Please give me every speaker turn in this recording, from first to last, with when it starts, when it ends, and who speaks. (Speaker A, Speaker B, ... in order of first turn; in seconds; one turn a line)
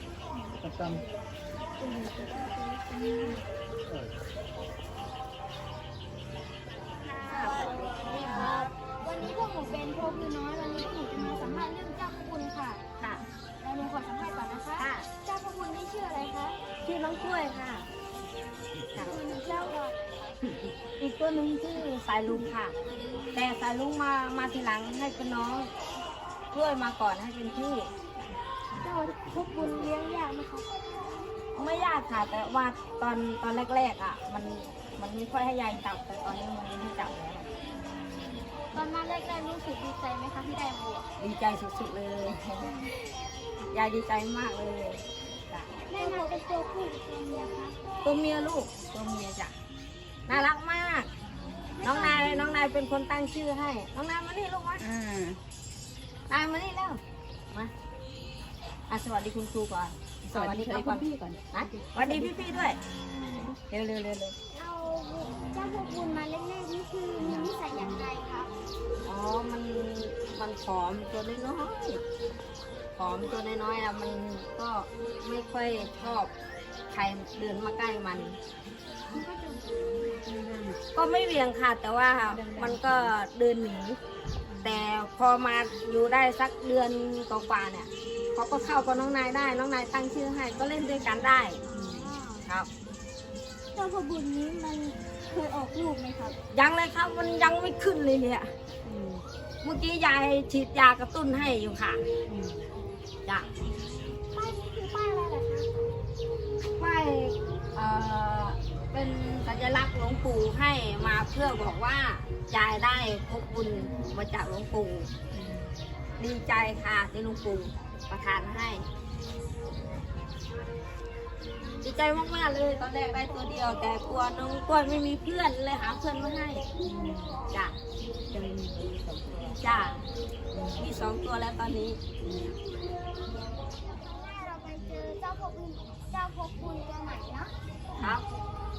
Speaker A: 0.5-1.1
Speaker A: 1.8-3.4
Speaker B: 7.0-8.6
Speaker A: 7.3-12.8
Speaker B: 13.0-13.2
Speaker A: 13.6-16.6
Speaker B: 14.8-15.1
Speaker B: 16.8-17.9
Speaker B: 18.9-19.2
Speaker A: 19.0-19.9
Speaker B: 20.5-22.7
Speaker B: 23.3-25.7
Speaker B: 26.5-27.9
Speaker A: 28.8-30.7
Speaker B: 31.5-37.5
Speaker A: 38.6-41.1
Speaker B: 41.2-42.7
Speaker A: 42.6-42.9
Speaker B: 43.7-45.8
Speaker A: 45.9-47.8
Speaker B: 48.0-49.5
Speaker B: 50.3-51.1
Speaker A: 51.8-52.5
Speaker B: 51.8-54.9
Speaker C: 54.8-55.4
Speaker B: 56.3-57.0
Speaker B: 58.9-62.8
Speaker C: 60.3-62.3
Speaker B: 63.6-64.3
Speaker A: 64.5-68.5
Speaker C: 67.2-68.0
Speaker B: 69.0-72.0
Speaker B: 73.0-76.3
Speaker B: 76.9-78.4
Speaker A: 79.1-80.2
Speaker C: 80.2-80.8
Speaker B: 80.9-84.0
Speaker C: 82.3-83.1
Speaker C: 84.5-84.8
Speaker B: 84.6-91.7
Speaker A: 91.7-92.4
Speaker C: 91.7-92.1
Speaker A: 93.8-96.4
Speaker B: 96.5-98.5
Speaker C: 98.8-99.2
Speaker B: 99.6-102.0
Speaker C: 102.3-102.7
Speaker A: 104.1-105.7
Speaker B: 106.8-115.1
Speaker B: 116.2-118.9
Speaker B: 121.8-126.7
Speaker C: 126.8-127.4
Speaker B: 127.5-127.8
Speaker C: 128.3-129.5
Speaker B: 129.5-130.1
Speaker C: 130.5-130.8
Speaker B: 130.8-132.0
Speaker C: 132.2-132.5
Speaker A: 133.8-137.5
Speaker B: 138.0-138.3